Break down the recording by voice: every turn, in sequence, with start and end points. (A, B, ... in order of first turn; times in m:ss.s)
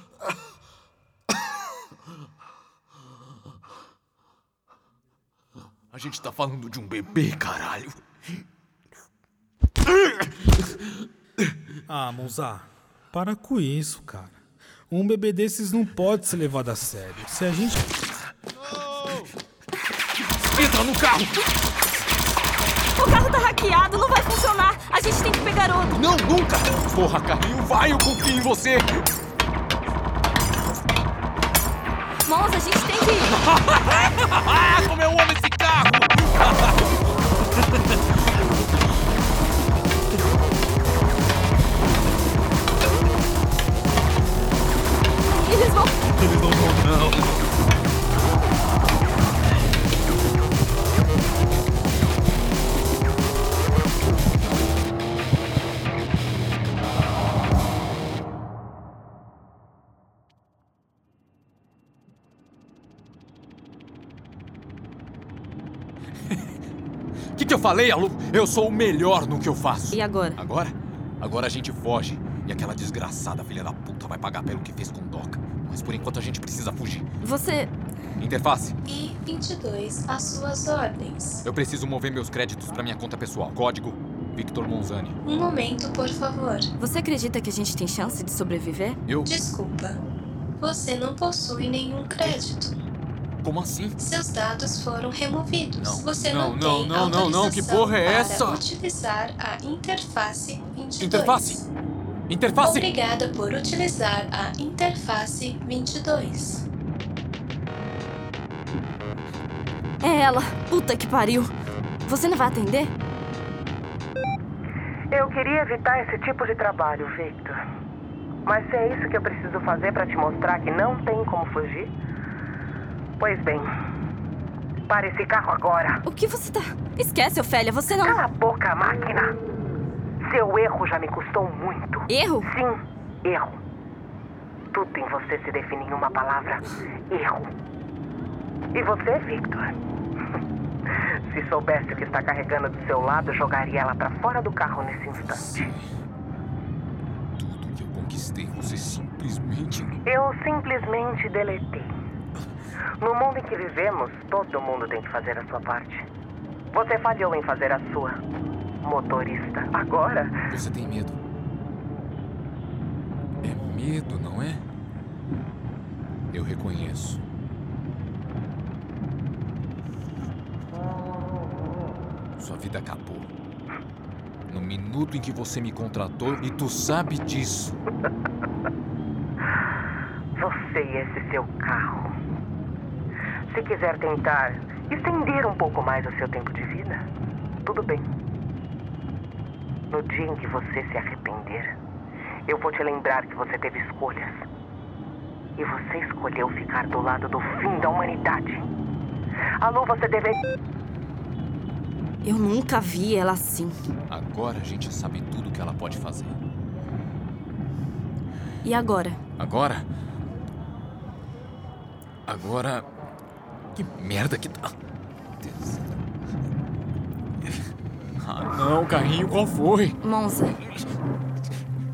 0:05.9-0:08.0 A
0:11.9-0:14.4 B
0:14.9-0:17.9 B
0:18.9-0:19.3 A
0:20.5-0:21.4 A
0:23.0-0:26.0 C
0:25.9-0:29.0 A
0:32.2-0:33.4 C
0:33.3-0:36.9 A
0:45.3-0:46.0 C
0:46.2-0:47.3 A
1:07.4-1:17.1 A
1:09.9-1:10.4 C
1:17.2-1:17.7 C
1:18.2-1:18.7 A
1:18.8-1:21.4 D
1:21.4-1:25.2 A
1:25.2-1:26.7 D
1:26.8-1:29.0 C
1:29.1-1:29.3 A
1:29.2-1:30.0 D
1:30.6-1:32.7 D
1:33.4-1:34.0 A
1:34.0-1:41.7 D
1:35.8-1:38.6 A
1:41.0-1:41.6 A
1:42.3-1:42.9 A
1:42.6-1:46.6 D
1:50.0-1:51.5 C
1:52.0-1:52.9 C
1:55.1-1:57.6 E
1:58.4-2:01.9 E
2:03.2-2:03.7 E
2:04.9-2:06.0 E
2:06.0-2:08.2 C
2:08.0-2:09.4 E
2:10.2-2:13.6 E
2:12.1-2:12.5 C
2:14.7-2:17.5 E
2:18.7-2:19.8 E
2:21.3-2:25.4 E
2:25.5-2:25.8 A
2:27.4-2:30.0 A
2:30.0-2:31.9 E
2:33.0-2:36.1 E
2:36.7-2:38.2 E
2:38.8-2:40.3 E
2:40.5-2:41.2 A
2:43.4-2:44.6 A
2:46.3-2:47.2 A
2:52.4-2:53.3 A
2:54.5-2:57.8 A
3:00.4-3:02.1 E
3:03.5-3:07.1 E
3:07.6-3:08.1 E
3:09.9-3:11.8 E
3:12.5-3:14.4 E
3:15.6-3:18.7 E
3:19.6-3:20.4 E
3:22.2-3:23.8 C
3:24.1-3:26.3 A
3:28.6-3:29.2 C
3:29.4-3:29.8 A
3:32.3-3:32.9 A
3:33.7-3:34.7 A
3:35.4-3:35.7 A
3:38.2-3:40.0 A
3:40.0-3:40.6 C